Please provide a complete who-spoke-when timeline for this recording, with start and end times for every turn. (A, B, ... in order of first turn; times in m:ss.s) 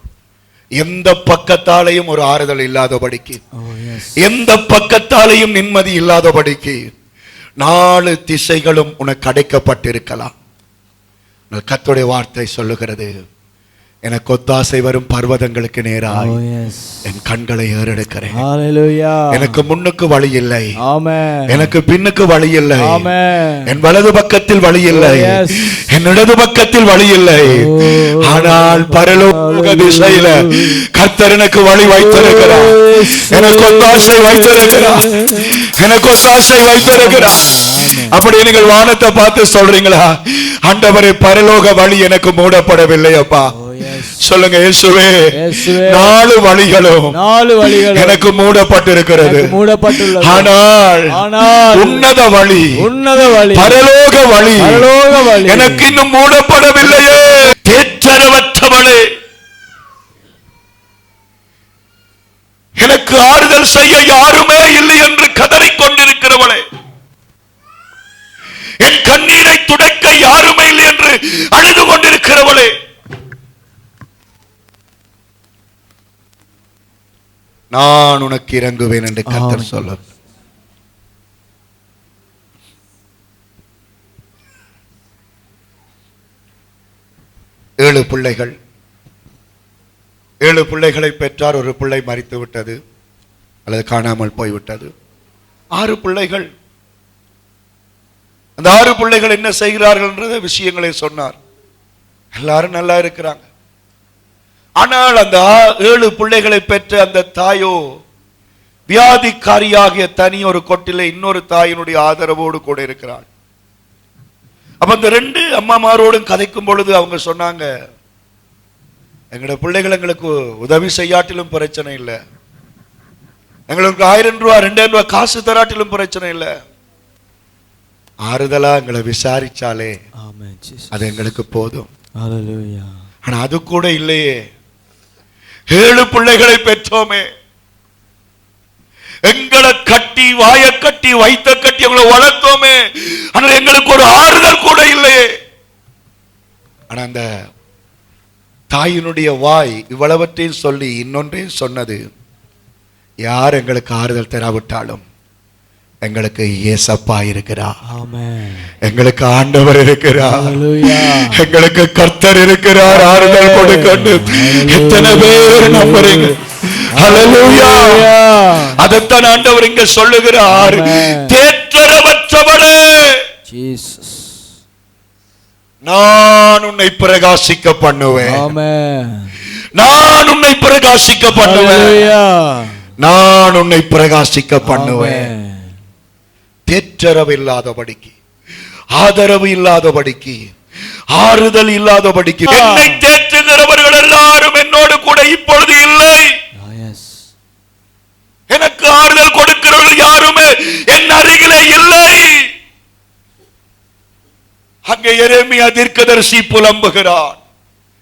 0:00.8-0:03.4 A
0:03.6-0:04.2 B
0:04.2-0:06.8 A
0:07.6-0:10.3 A
0:11.5-0:13.1 A
0:14.0-0:16.4 A
0:16.1-0:17.0 B
0:17.0-0:18.4 A
0:18.3-0:19.6 B
0:19.3-0:20.7 A
0:20.8-0:21.7 B
0:21.5-0:23.1 A
0:22.8-0:23.7 B
0:23.7-0:43.5 A
0:24.9-0:25.7 B
0:27.5-0:30.8 B
0:31.9-0:35.6 B
0:36.8-0:38.2 B
0:43.5-0:44.2 B
0:44.2-0:45.2 A
0:45.3-0:46.1 B
0:45.8-0:47.1 A
0:47.1-0:48.3 B
0:47.9-0:49.5 A
0:49.2-0:50.5 B
0:50.2-0:51.2 A
0:51.1-0:52.1 B
0:51.7-0:52.7 A
0:52.8-0:53.8 B
0:53.5-0:54.9 A
0:54.6-0:56.0 B
0:55.4-0:59.0 A
1:02.8-1:06.6 A
1:08.8-1:12.7 A
1:17.7-1:20.0 A
1:19.3-1:19.9 B
1:27.8-1:28.5 A
1:30.4-1:32.8 A
1:33.6-1:34.9 A
1:35.7-1:36.5 A
1:38.6-1:41.4 A
1:42.4-1:43.4 A
1:44.8-1:47.8 A
1:48.9-1:53.3 A
1:54.8-1:57.7 A
1:59.3-2:02.2 A
2:03.7-2:06.5 A
2:08.3-2:09.9 A
2:10.2-2:11.0 B
2:10.9-2:11.9 A
2:12.2-2:12.9 B
2:13.3-2:14.3 A
2:15.7-2:17.2 A
2:19.3-2:22.8 A
2:23.3-2:25.2 A
2:26.9-2:27.2 A
2:28.7-2:32.0 A
2:33.2-2:35.0 A
2:36.0-2:37.7 A
2:37.9-2:38.7 B
2:38.8-2:48.0 A
2:40.2-2:41.4 B
2:42.8-2:46.4 B
2:46.9-2:48.8 B
2:48.8-2:53.2 A
2:50.5-2:51.3 B
2:53.5-2:54.4 B
2:55.8-2:58.5 A
2:58.2-2:59.3 B
2:59.8-3:02.1 A
3:01.3-3:02.8 B
3:03.0-3:05.3 A
3:04.6-3:05.7 B
3:06.7-3:08.1 A
3:08.9-3:10.4 A
3:11.1-3:16.3 A
3:12.5-3:13.0 B
3:16.6-3:17.3 B
3:18.5-3:22.4 A
3:24.9-3:27.4 A